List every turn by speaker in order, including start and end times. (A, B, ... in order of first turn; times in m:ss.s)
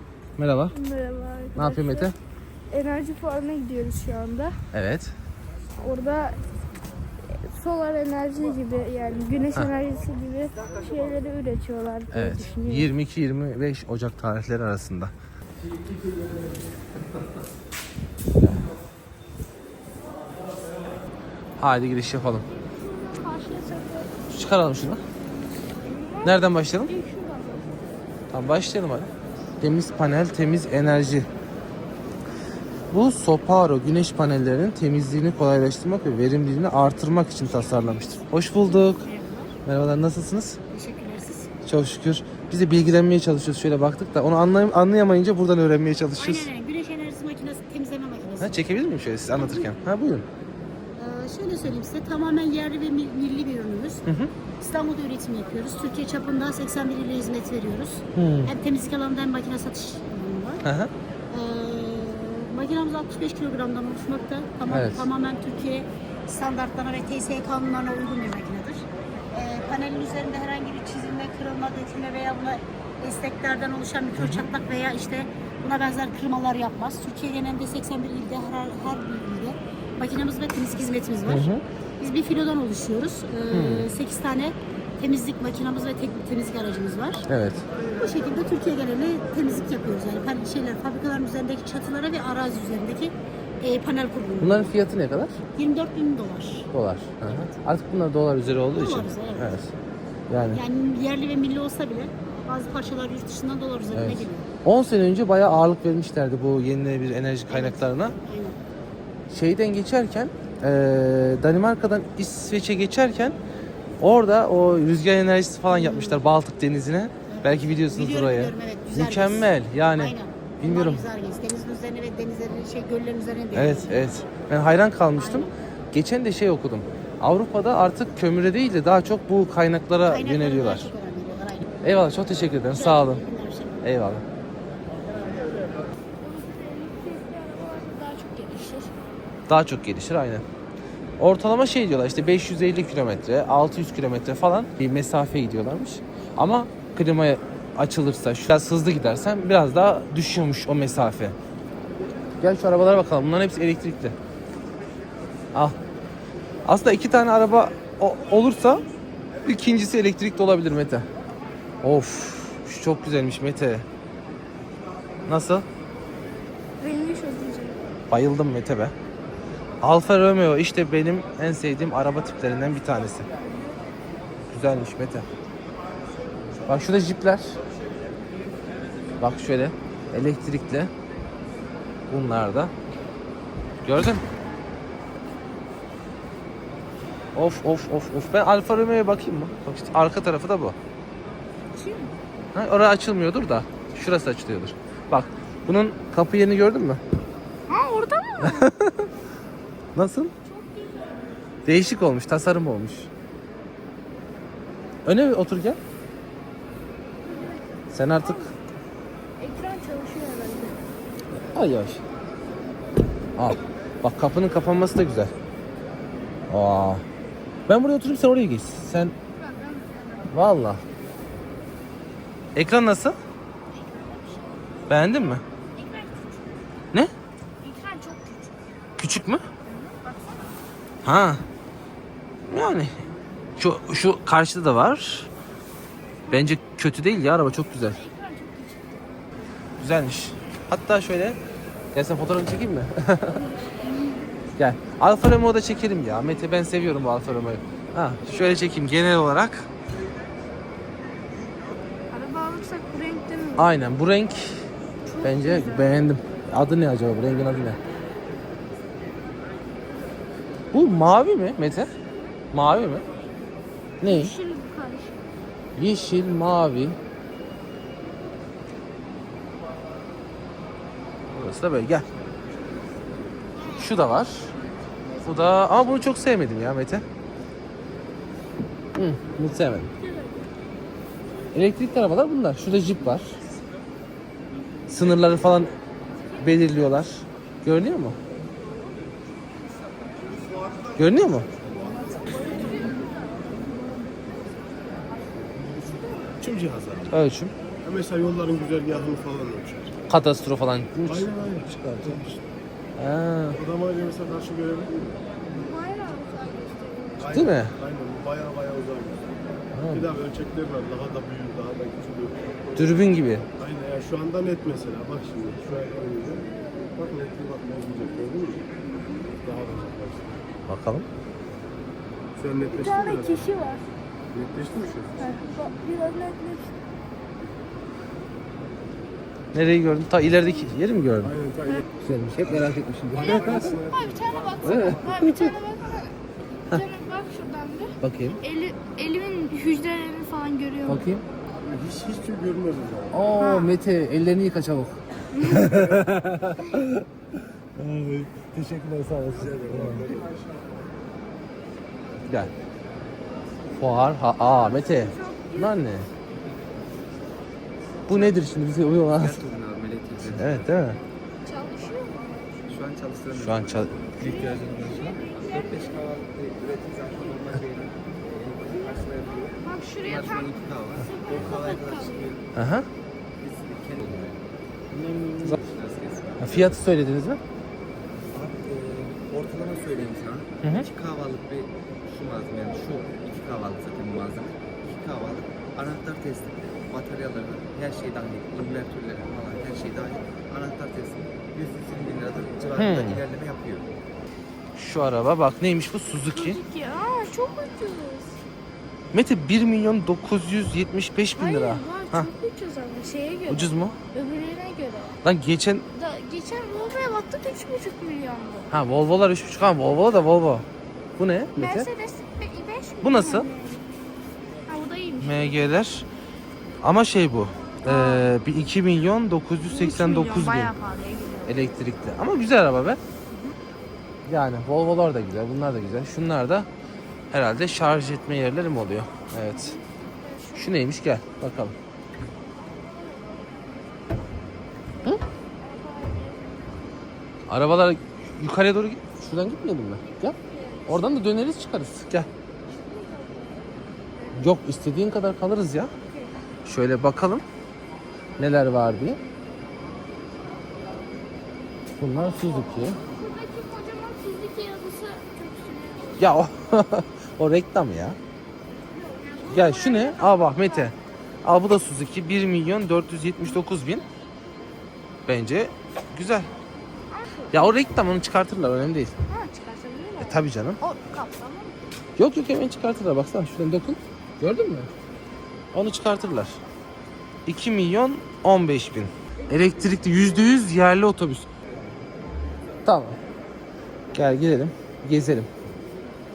0:00.4-0:00.7 A
0:00.7-0:02.1 B
0:01.5-0:02.1 A
0:02.7-0:04.6 B
0:04.7-0:05.1 A
0:05.8-0:06.4 B
0:07.2-0:12.9 B
0:12.1-0:15.1 A
0:18.4-0:18.6 A
0:21.6-0:22.4 A
0:22.5-0:24.1 B
0:24.3-0:25.0 A
0:25.8-0:27.8 B
0:26.2-0:26.9 A
0:28.3-0:31.3 A
0:32.9-0:39.0 A
0:37.5-0:39.5 C
0:39.6-0:40.6 A
0:40.7-0:41.5 C
0:41.6-0:46.5 A
0:46.2-0:48.6 C
0:48.4-0:50.2 A
0:49.4-0:49.7 C
0:50.9-0:54.0 C
0:54.1-0:54.3 A
0:54.6-1:00.6 C
0:58.1-0:58.5 A
1:00.6-1:00.9 A
1:01.3-1:27.3 C
1:04.7-1:05.1 A
1:14.2-1:14.4 A
1:21.2-1:21.6 A
1:23.5-1:23.9 A
1:27.3-1:27.6 A
1:28.0-1:34.7 C
1:34.4-1:35.4 A
1:35.5-1:36.7 C
1:36.7-1:39.7 A
1:38.7-1:39.5 C
1:40.3-1:40.6 A
1:40.5-1:44.5 C
1:43.9-1:48.1 A
1:47.5-1:48.6 C
1:49.3-1:53.4 A
1:54.0-2:01.0 A
1:55.7-1:56.2 C
1:57.3-2:04.0 C
2:03.5-2:10.9 A
2:05.2-2:05.5 C
2:10.1-2:11.7 C
2:11.8-2:13.2 A
2:12.7-2:13.8 C
2:13.8-2:14.2 A
2:16.2-2:18.9 B
2:19.5-2:20.4 A
2:21.2-2:31.3 A
2:32.4-2:34.1 A
2:36.6-2:38.8 A
2:39.4-2:41.0 A
2:41.8-2:43.8 A
2:45.2-2:45.6 A
2:46.8-2:47.8 B
2:48.1-2:48.9 A
2:49.8-2:53.2 A
2:54.5-2:55.2 A
2:56.6-2:57.6 A
2:59.2-3:00.9 A
3:02.1-3:02.7 A
3:03.8-3:04.2 A
3:07.3-3:10.8 A
3:11.7-3:12.1 B
3:12.5-3:17.0 A
3:17.7-3:18.7 B
3:18.4-3:19.1 A
3:19.9-3:20.3 A
3:20.4-3:21.4 B
3:21.6-3:23.1 A
3:25.0-3:25.8 A
3:27.3-3:27.6 B
3:27.9-3:28.5 A
3:28.2-3:28.5 B
3:29.4-3:30.8 B
3:31.4-3:32.0 A
3:33.4-3:35.3 A
3:36.5-3:37.0 A
3:37.7-3:39.1 A
3:39.4-3:40.1 B
3:40.3-3:40.8 A
3:42.5-3:43.2 A
3:43.7-3:44.8 B
3:44.9-3:45.4 A
3:45.7-3:46.8 B
3:47.6-3:48.6 B
3:49.0-3:49.4 A
3:49.6-3:50.4 B
3:51.0-3:51.4 A
3:52.5-3:53.0 A
3:53.6-3:55.3 A
3:56.3-3:58.0 A
3:57.8-3:59.2 B
3:59.8-4:01.4 A
4:01.9-4:03.4 A
4:03.7-4:04.3 B
4:04.6-4:09.7 A
4:12.1-4:13.8 B
4:13.6-4:14.6 A
4:15.1-4:16.0 B
4:15.2-4:17.8 A
4:20.7-4:21.9 A
4:22.5-4:23.0 A
4:24.0-4:24.3 A
4:24.0-4:25.2 B
4:25.8-4:27.0 A
4:31.3-4:32.0 A
4:33.7-4:34.5 A
4:35.2-4:35.6 B
4:35.2-4:37.0 A
4:38.9-4:39.9 A
4:40.0-4:40.5 B
4:41.5-4:43.4 A
4:44.9-4:45.7 A
4:46.4-4:48.2 A
4:51.0-4:51.5 A
4:52.1-4:53.7 B
4:55.9-4:56.2 B
4:56.4-4:57.1 D
4:57.1-4:57.5 A
4:57.8-4:59.9 D
5:00.1-5:02.4 A
5:01.0-5:02.3 D
5:03.0-5:03.6 A
5:03.5-5:05.2 D
5:05.5-5:07.6 B
5:07.2-5:09.3 D
5:07.3-5:07.7 A
5:09.7-5:10.1 A
5:09.9-5:12.9 D
5:12.8-5:13.5 A
5:13.6-5:18.6 D
5:18.9-5:19.4 B
5:19.4-5:20.4 D
5:20.7-5:21.1 A
5:22.4-5:23.5 D
5:22.7-5:23.8 B
5:24.3-5:25.2 D
5:25.2-5:26.7 B
5:29.5-5:31.3 A
5:31.2-5:31.8 D
5:32.0-5:33.7 A
5:32.4-5:35.0 D
5:33.2-5:36.2 B
5:34.6-5:35.5 A
5:36.7-5:41.0 B
5:38.0-5:38.4 A
5:40.8-5:41.2 A
5:41.6-5:43.1 D
5:43.1-5:47.0 A
5:43.4-5:43.7 B
5:45.4-5:45.7 B
5:47.8-5:50.1 A
5:49.4-5:50.1 D
5:52.2-5:52.5 A
5:53.8-5:56.1 A
5:54.4-5:55.8 B
5:58.1-5:59.4 A
5:59.2-6:00.6 E
6:00.3-6:01.0 A
6:01.4-6:02.8 B
6:02.7-6:12.4 E
6:03.3-6:03.9 A
6:04.1-6:06.0 B
6:09.6-6:12.4 B
6:12.5-6:12.9 A
6:13.4-6:16.7 E
6:16.4-6:17.4 A
6:18.3-6:33.9 E
6:20.6-6:20.9 A
6:32.8-6:33.2 A
6:34.8-6:36.6 A
6:36.3-6:38.4 B
6:39.1-6:42.3 A
6:41.4-6:45.2 B
6:43.5-6:44.0 A
6:45.2-6:45.8 A
6:45.9-6:48.8 B
6:48.7-6:50.6 A
6:51.2-6:51.9 A
6:51.6-6:53.9 B
6:53.0-6:53.5 A
6:54.7-6:55.5 B
6:55.2-6:56.0 A
6:56.8-7:00.7 A
6:57.8-6:58.3 B
6:59.7-7:01.6 B
7:01.4-7:03.0 A
7:03.3-7:03.6 B
7:04.3-7:06.7 A
7:07.3-7:09.8 A
7:09.5-7:10.7 B
7:10.5-7:11.7 A
7:12.8-7:13.6 B
7:15.6-7:16.8 B
7:17.5-7:20.4 A
7:20.3-7:21.2 B
7:20.9-7:22.3 A
7:22.7-7:23.7 B
7:24.3-7:25.9 A
7:26.0-7:26.3 B
7:26.6-7:27.4 A
7:28.4-7:29.2 A
7:32.0-7:33.0 A
7:33.0-7:36.3 B
7:36.2-7:38.2 A
7:38.9-7:40.9 B
7:39.5-7:40.9 A
7:41.4-7:44.0 A
7:45.3-7:46.5 A
7:47.1-7:47.8 B
7:47.5-7:49.1 A
7:49.3-7:51.8 B
7:50.2-7:50.8 A
7:52.2-7:54.9 A
7:55.7-7:56.6 A
7:57.4-8:01.5 A
8:02.8-8:03.2 A
8:04.1-8:05.5 A